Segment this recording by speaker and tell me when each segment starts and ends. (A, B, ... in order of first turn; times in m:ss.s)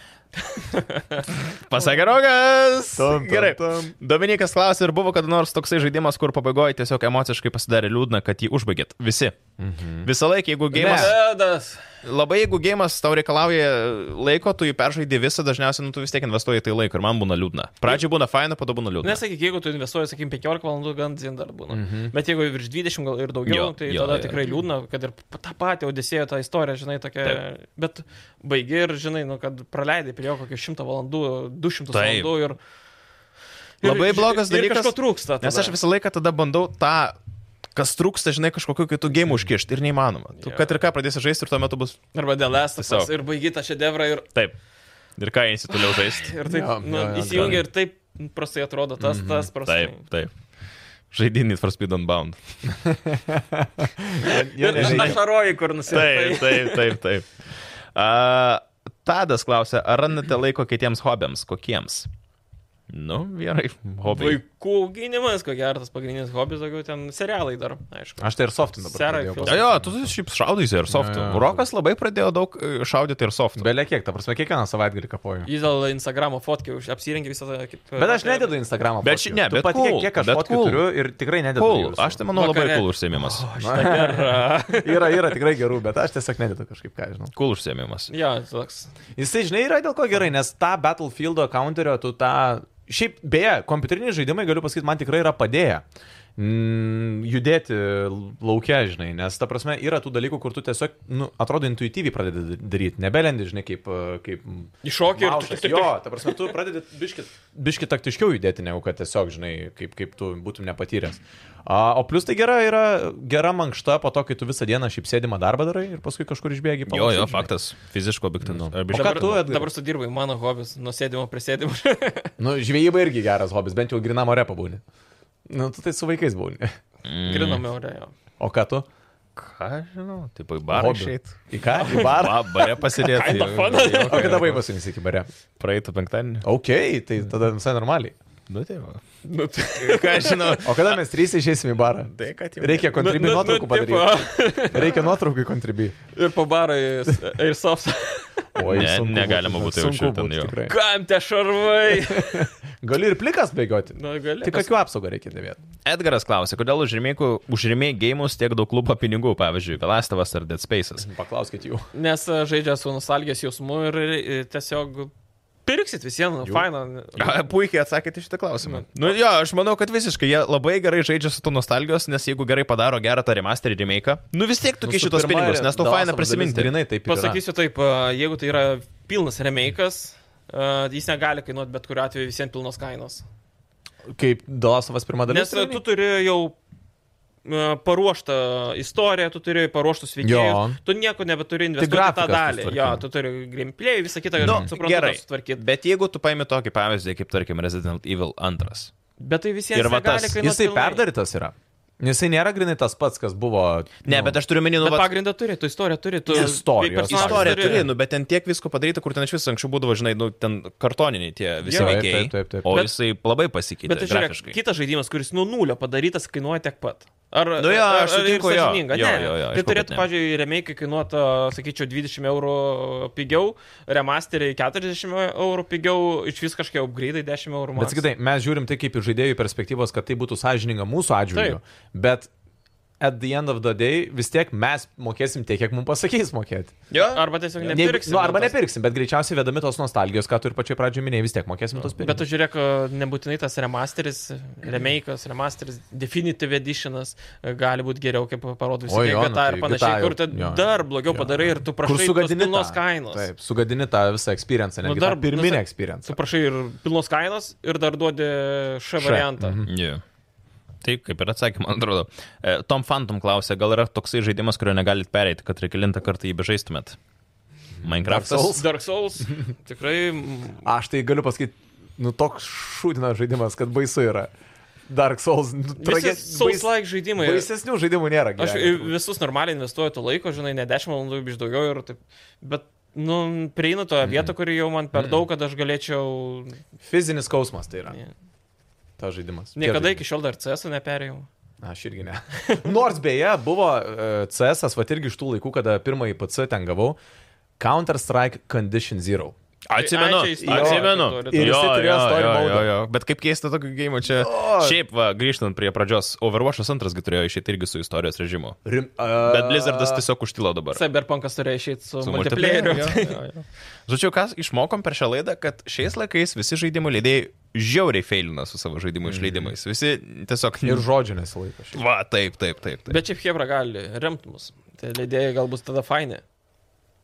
0:00.4-0:01.3 A
0:01.5-0:09.4 B
0:03.0-0:03.9 C
0:09.6-0:10.1 C
0:10.0-0:11.2 B
0:10.7-0:11.2 C
0:10.8-0:11.8 A
0:12.0-0:19.2 B
0:19.0-0:32.6 A
0:21.7-0:22.1 C
0:23.5-0:24.4 B
0:31.9-0:32.3 B
0:33.8-0:35.8 A
0:33.8-0:37.2 B
0:37.8-0:42.0 B
0:40.4-0:40.8 A
0:42.1-0:44.3 A
0:42.8-0:43.1 B
0:45.2-0:46.3 B
0:45.8-0:50.0 A
0:46.4-0:47.6 C
0:47.3-0:47.6 B
0:49.0-0:49.5 C
0:49.6-0:50.3 B
0:51.1-0:52.4 B
0:52.7-0:55.2 C
0:54.2-0:57.0 A
0:54.7-0:55.2 B
0:55.9-0:57.3 B
0:58.0-1:02.1 B
1:02.9-1:04.4 B
1:04.0-1:09.7 A
1:08.2-1:10.0 C
1:09.4-1:13.7 B
1:10.9-1:11.6 C
1:13.6-1:15.5 C
1:15.4-1:18.6 A
1:18.0-1:22.2 C
1:19.0-1:20.9 B
1:21.6-1:23.5 B
1:22.3-1:25.4 A
1:23.6-1:27.3 C
1:27.3-1:28.1 B
1:28.1-1:28.9 A
1:29.2-1:35.8 C
1:36.4-1:57.5 C
1:44.8-1:46.5 A
1:56.9-1:59.4 B
1:58.4-1:59.7 C
1:58.9-2:02.3 A
2:02.4-2:04.8 C
2:05.5-2:06.7 C
2:07.0-2:07.6 B
2:07.3-2:08.1 A
2:08.4-2:08.9 C
2:09.4-2:14.6 B
2:10.7-2:12.5 C
2:11.8-2:14.5 A
2:13.7-2:15.3 C
2:15.6-2:16.5 B
2:16.4-2:18.2 C
2:18.5-2:19.0 B
2:19.2-2:20.6 A
2:19.8-2:21.0 B
2:20.6-2:26.0 C
2:22.1-2:23.0 B
2:22.9-2:25.1 A
2:26.1-2:28.5 A
2:28.6-2:30.8 C
2:28.6-2:30.5 B
2:30.7-2:32.5 A
2:31.9-2:35.6 C
2:34.0-2:34.7 A
2:35.9-2:41.1 B
2:41.0-2:41.9 C
2:41.9-2:45.1 A
2:45.7-2:47.4 A
2:47.2-2:56.7 B
2:48.7-2:49.1 A
2:54.8-2:57.4 C
2:57.1-3:03.2 A
3:04.1-3:05.8 C
3:05.3-3:06.6 A
3:07.4-3:15.6 A
3:10.2-3:10.8 C
3:11.8-3:13.0 C
3:14.4-3:14.7 C
3:14.4-3:18.9 B
3:19.2-3:21.0 A
3:19.7-3:20.4 B
3:20.4-3:24.4 C
3:24.0-3:25.1 B
3:24.8-3:27.9 A
3:26.3-3:27.9 C
3:27.1-3:34.6 B
3:31.6-3:32.7 C
3:31.7-3:32.0 A
3:32.7-3:32.9 A
3:33.8-3:48.0 A
3:37.6-3:40.1 B
3:47.8-3:52.3 C
3:51.3-3:51.6 A
3:53.0-3:56.8 C
3:56.9-3:57.2 B
3:57.0-3:58.6 A
3:57.6-4:02.2 C
4:02.0-4:13.3 A
4:08.9-4:16.2 C
4:14.8-4:19.6 A
4:19.0-4:19.7 C
4:19.7-4:20.0 B
4:20.8-4:27.0 B
4:27.8-4:28.8 C
4:27.8-4:28.6 B
4:28.5-4:30.7 A
4:30.6-4:34.3 C
4:34.9-4:39.0 C
4:35.8-4:37.5 A
4:38.4-4:46.6 A
4:46.8-4:48.0 C
4:49.0-4:50.0 C
4:49.6-4:51.3 A
4:51.6-4:57.0 C
4:57.6-4:59.3 C
4:59.7-5:08.6 B
4:59.8-5:01.6 A
5:00.4-5:02.7 C
5:04.1-5:04.8 C
5:08.6-5:10.0 C
5:09.2-5:10.8 B
5:10.7-5:13.2 A
5:12.0-5:20.8 B
5:19.0-5:19.5 C
5:20.6-5:21.8 C
5:21.7-5:23.0 B
5:22.9-5:26.2 A